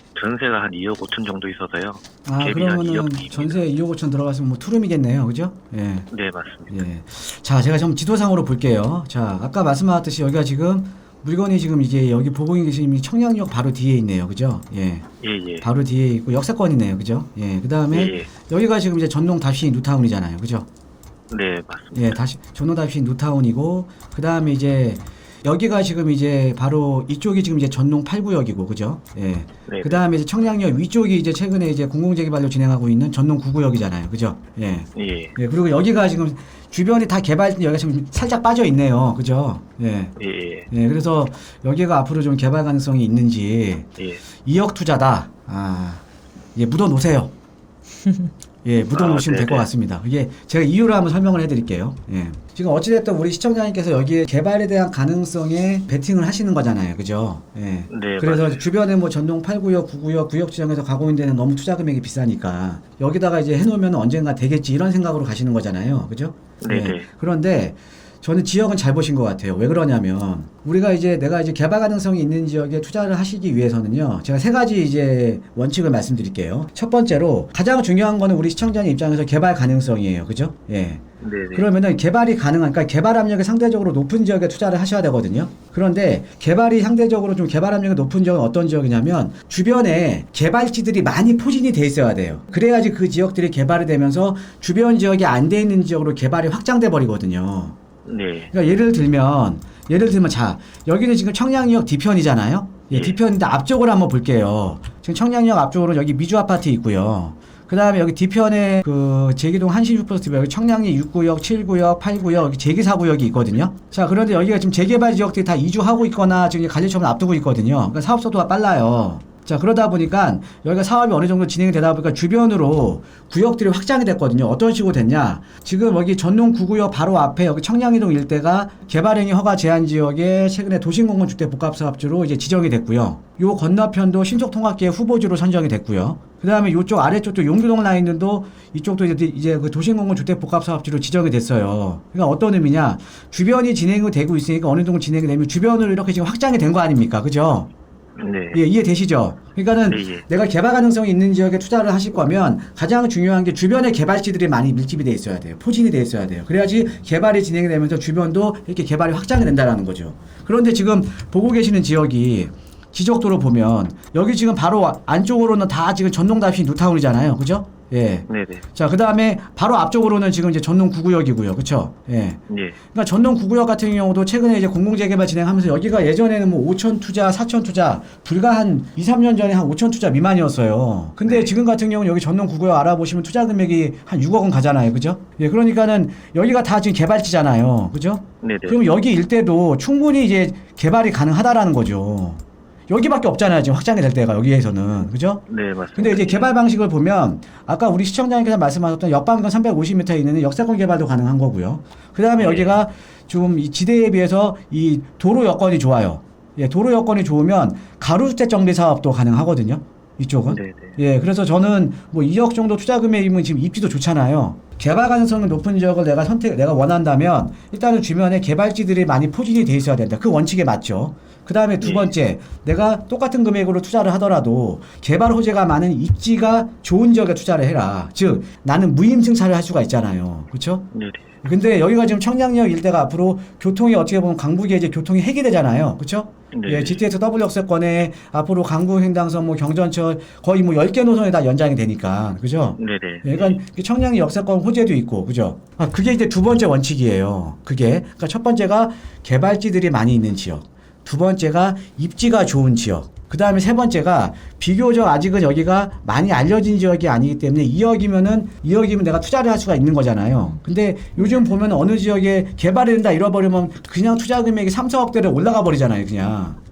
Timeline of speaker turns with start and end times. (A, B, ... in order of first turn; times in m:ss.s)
0:00.2-0:03.7 A
0:02.3-0:06.1 B
0:06.1-0:06.8 A
0:06.7-0:15.1 B
0:15.2-0:15.7 A
0:15.6-0:20.7 B
0:17.9-0:18.3 A
0:21.3-0:22.2 A
0:21.9-0:40.2 B
0:29.7-0:30.0 A
0:35.0-0:35.4 A
0:40.2-0:40.7 A
0:40.7-0:43.9 B
0:44.4-0:46.0 B
0:46.6-0:47.3 B
0:48.6-1:37.8 B
0:48.9-0:49.7 A
0:57.9-0:58.7 A
1:06.6-1:07.1 A
1:21.2-1:21.7 A
1:38.1-1:38.5 A
1:38.5-2:27.7 B
1:42.9-1:43.2 A
2:28.2-2:28.6 A
2:28.5-3:15.4 B
2:29.9-2:30.2 A
2:48.3-2:48.6 A
2:52.5-2:52.8 A
3:01.2-3:01.6 A
3:08.4-3:08.8 A
3:15.5-3:16.6 A
3:16.0-3:50.9 B
3:22.4-3:22.8 A
3:30.5-3:31.0 A
3:41.8-3:42.1 A
3:50.9-3:51.2 A
3:51.4-4:26.6 B
3:56.5-3:57.0 A
4:02.8-4:03.6 A